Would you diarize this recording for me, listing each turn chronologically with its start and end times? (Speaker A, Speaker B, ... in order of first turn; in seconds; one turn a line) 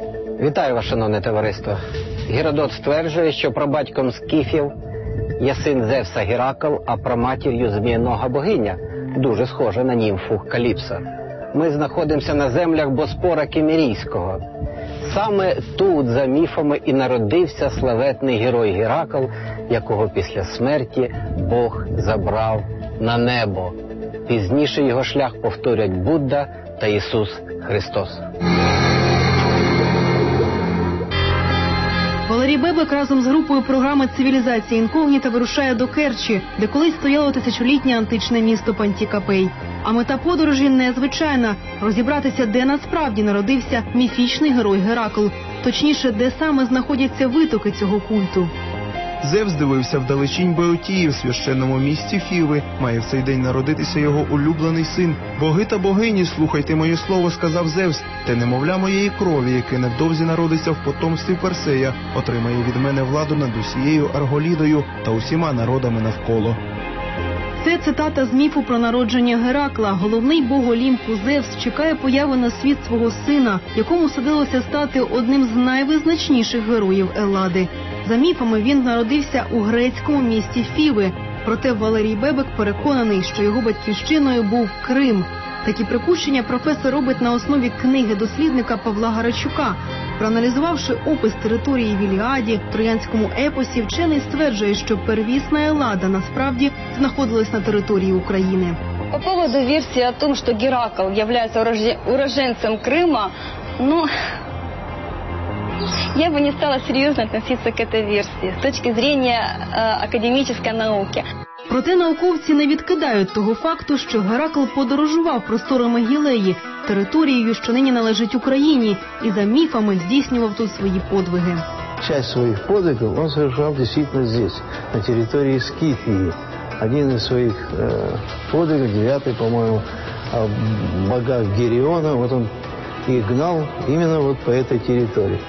Speaker A: 0.4-4.7
Speaker A: 5.4-14.4
Speaker A: 15.0-23.8
Speaker A: 24.3-28.2
Speaker B: 32.3-48.5
Speaker C: 49.2-66.6
Speaker B: 67.6-98.8
Speaker D: 99.1-104.1
Speaker D: 106.2-111.2
Speaker B: 111.7-121.6
Speaker E: 122.0-132.5
Speaker E: 133.1-135.4